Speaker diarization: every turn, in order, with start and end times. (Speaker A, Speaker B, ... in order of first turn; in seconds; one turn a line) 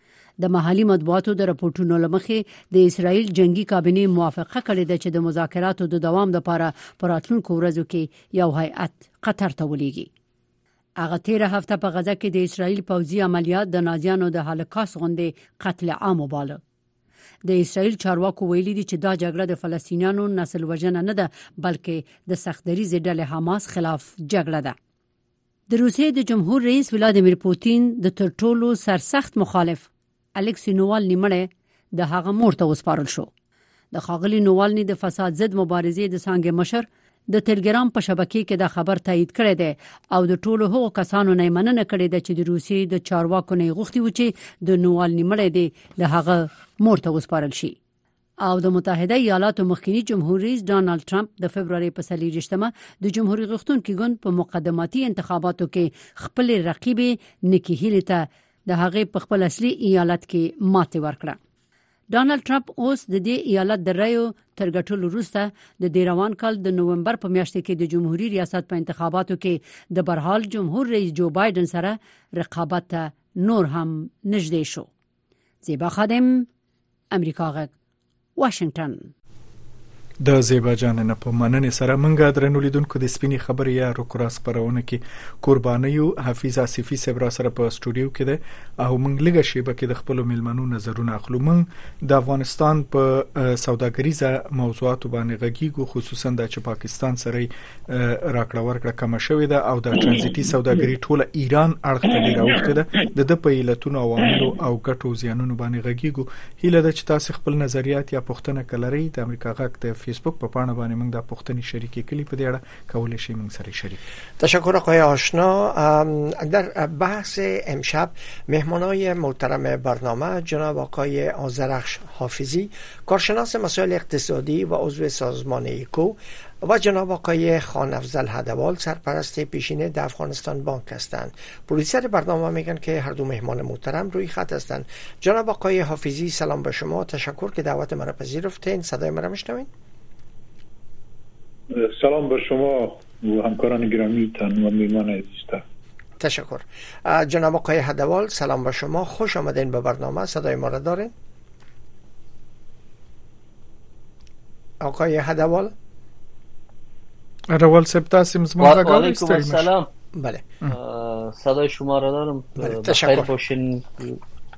Speaker A: 0.4-10.1
Speaker A: 11.0-16.6
Speaker A: 17.4-24.8
Speaker A: 25.7-33.3
Speaker A: 33.9-47.8
Speaker A: 48.4-61.4
Speaker A: 62.1-74.9
Speaker A: 75.6-76.5
Speaker A: 77.1-77.7
Speaker A: 78.4-79.1
Speaker B: 80.2-114.0
Speaker C: 114.4-139.7
Speaker D: 141.7-145.6
Speaker C: 146.2-151.1
Speaker C: 154.8-155.7
Speaker B: 157.5-159.7
Speaker E: 158.6-159.9
Speaker C: 160.2-160.5
Speaker E: 160.7-164.2
Speaker C: 162.6-163.3